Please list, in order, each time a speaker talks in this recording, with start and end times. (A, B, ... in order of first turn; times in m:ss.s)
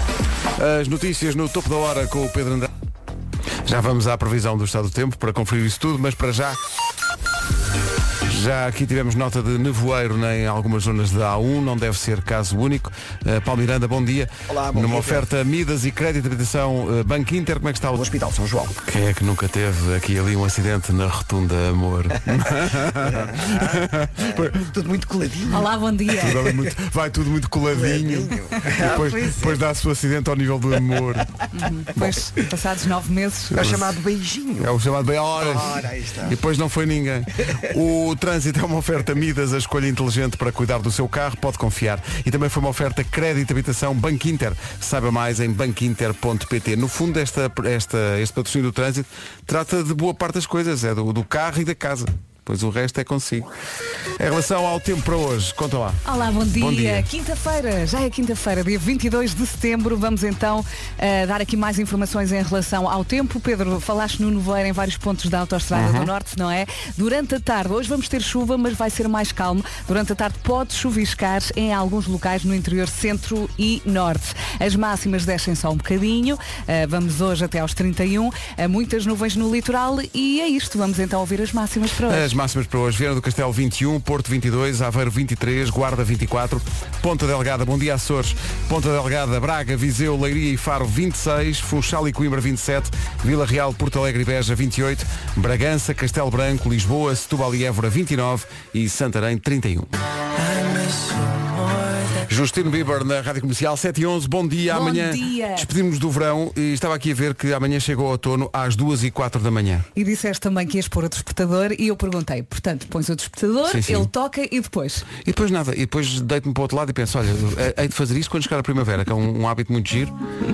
0:00.6-0:02.7 A
0:03.6-0:06.6 A
0:08.2-0:18.0 A
0:14.5-0:15.3 B
0:17.9-0:18.8 B
0:18.8-0:24.5 A
0:23.1-0:25.8 B
0:25.5-0:26.5 C
0:26.2-0:31.3 A
0:27.7-0:29.6 B
0:31.5-0:33.6 C
0:33.5-0:34.7 B
0:33.6-0:33.9 A
0:34.6-0:53.5 A
0:35.4-0:36.3 B
0:54.2-0:56.0 A
0:56.0-1:22.3 C
0:56.6-0:57.1 A
1:05.7-1:06.1 A
1:22.1-1:39.9 A
1:42.2-1:49.8 A
1:44.7-1:45.7 C
1:49.9-1:55.0 C
1:53.7-1:54.1 A
1:55.2-2:00.1 A